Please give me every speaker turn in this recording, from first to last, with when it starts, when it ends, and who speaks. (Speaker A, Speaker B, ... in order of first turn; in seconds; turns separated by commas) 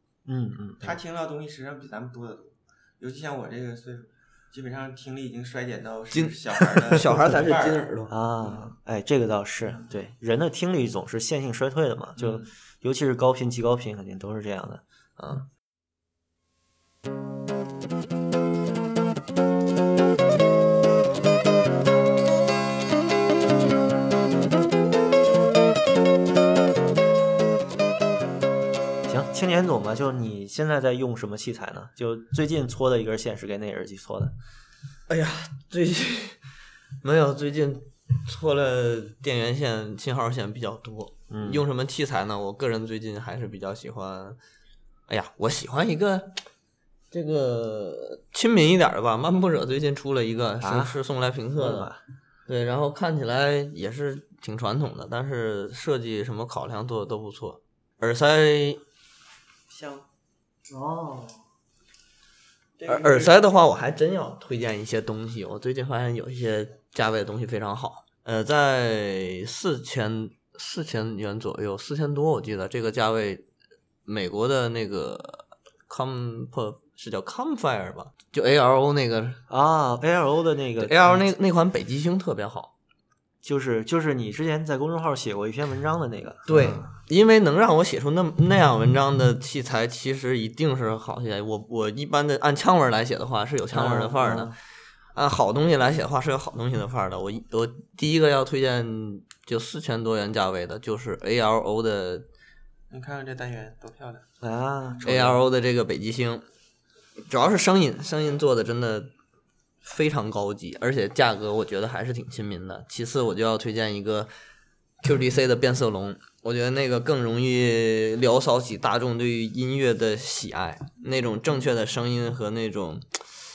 Speaker A: 0.3-1.0, Speaker B: 0.8-7.9, Speaker C: 6.1-8.1, Speaker A: 8.1-15.4, Speaker B: 8.4-8.7, Speaker B: 12.2-12.5, Speaker A: 29.1-34.3, Speaker C: 35.1-36.4, Speaker C: 37.0-44.4, Speaker A: 41.3-41.6, Speaker C: 45.1-46.4, Speaker C: 47.1-51.9, Speaker A: 50.6-51.0, Speaker A: 51.6-52.0, Speaker C: 52.5-58.8, Speaker B: 59.7-60.1, Speaker B: 60.7-61.2, Speaker B: 62.8-63.4, Speaker C: 62.9-73.5, Speaker C: 74.1-79.4, Speaker A: 79.5-81.3, Speaker C: 80.8-82.7, Speaker A: 83.4-86.9, Speaker C: 86.5-94.5, Speaker A: 93.7-94.5, Speaker C: 95.1-102.3, Speaker B: 102.9-104.3, Speaker A: 104.4-105.4, Speaker C: 105.0-106.5, Speaker C: 107.3-109.1, Speaker C: 109.8-114.3, Speaker C: 115.0-123.2